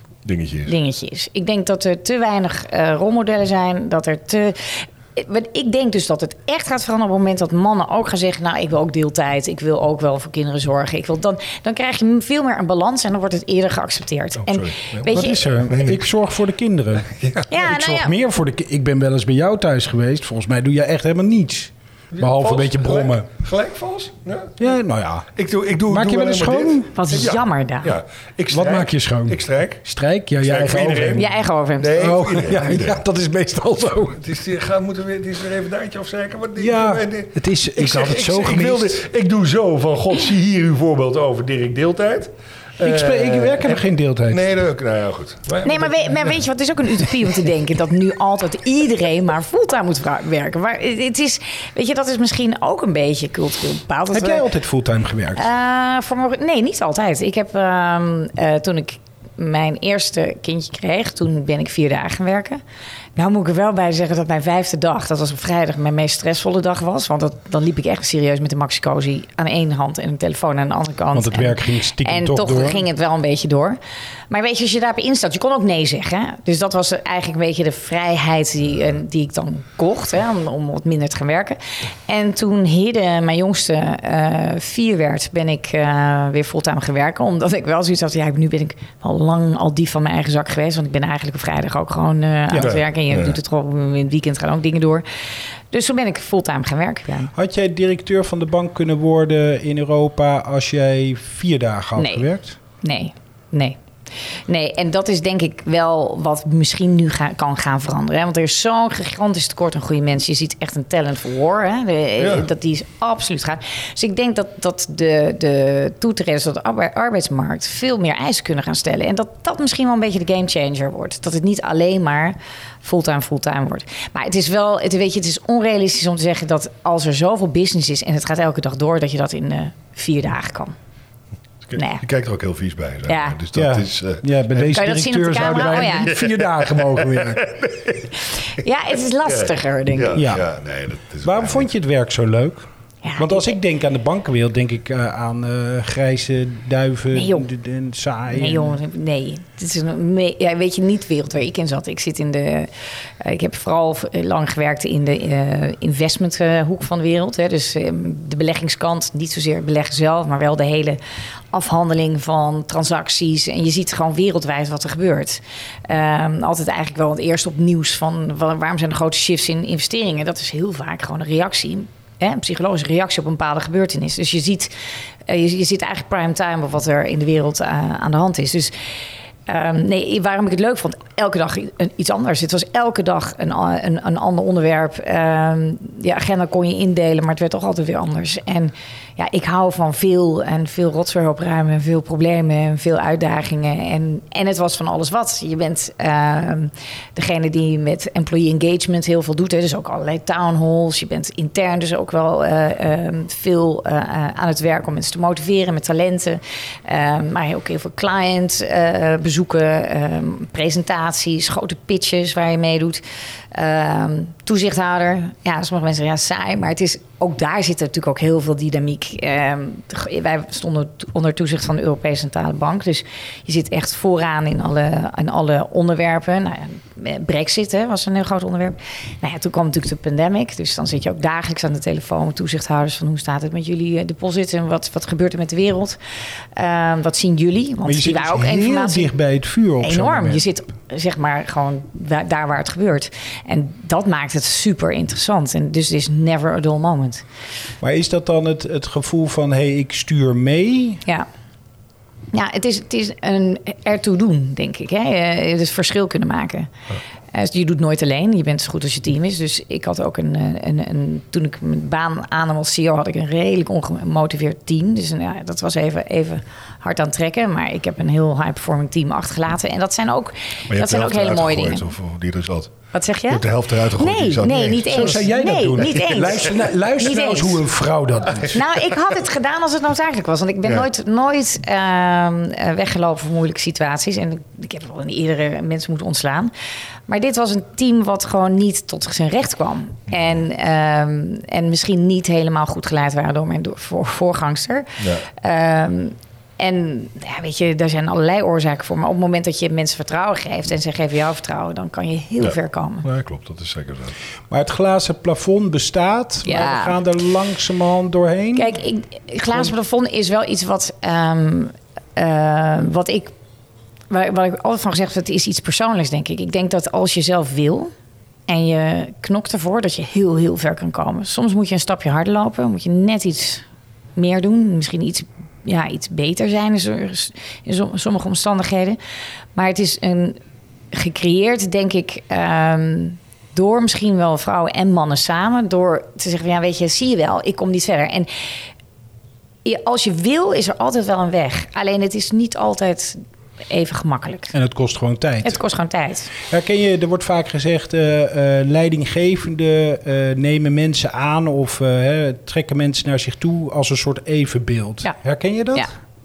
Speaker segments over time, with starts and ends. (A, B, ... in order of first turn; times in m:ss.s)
0:00.2-0:00.7 A
0:00.6-0:15.5 B
0:14.4-0:16.1 A
0:15.1-0:23.3 C
0:17.1-0:17.6 A
0:17.5-0:18.1 B
0:22.1-0:24.6 A
0:24.6-0:25.3 C
0:25.4-0:29.8 A
0:25.9-0:26.9 C
0:26.9-0:28.0 B
0:28.5-0:31.3 C
0:30.4-0:33.0 A
0:31.2-0:32.1 B
0:32.0-0:34.2 C
0:34.1-0:46.4 A
0:36.6-0:39.0 C
0:42.8-0:44.4 C
0:45.6-0:54.4 B
0:54.1-0:55.4 C
0:55.3-1:02.6 B
1:03.2-1:13.8 B
1:11.1-1:12.8 C
1:14.3-1:35.0 B
1:32.5-1:32.8 C
1:32.6-1:33.4 A
1:35.7-1:37.3 B
1:37.3-1:42.6 C
1:42.0-1:42.2 B
1:42.8-1:43.8 B
1:44.4-2:10.7 B
1:52.2-1:52.5 A
2:11.6-2:17.9 A
2:11.7-2:12.0 B
2:13.1-2:13.4 B
2:13.5-2:17.5 C
2:14.7-2:16.2 B
2:18.6-2:20.2 B
2:19.3-2:21.7 A
2:20.1-2:20.4 C
2:21.2-2:22.6 C
2:23.0-2:23.5 B
2:23.2-2:28.8 C
2:27.1-2:27.5 B
2:28.3-2:41.0 B
2:41.5-2:54.7 B
2:55.2-2:58.7 B
2:59.5-3:33.0 B
3:33.5-3:56.0 B
3:56.6-3:59.1 B
3:57.8-4:00.4 C
3:59.8-4:07.2 B
4:07.8-4:11.0 C
4:12.3-4:16.7 B
4:17.3-4:31.9 B
4:30.7-4:32.7 A
4:32.9-4:37.6 B
4:33.3-4:35.2 A
4:34.8-4:38.6 C
4:38.5-4:46.5 B
4:47.1-5:03.1 B
4:55.0-4:55.2 A
5:02.4-5:04.2 A
5:04.5-5:08.8 C
5:06.4-5:07.0 B
5:08.5-5:13.3 B
5:14.1-5:17.9 B
5:18.5-5:23.6 B
5:24.2-5:29.0 B
5:29.5-5:30.4 B
5:30.9-5:38.3 B
5:39.6-5:44.5 B
5:44.5-5:45.6 C
5:45.4-5:46.3 B
5:46.4-5:55.9 C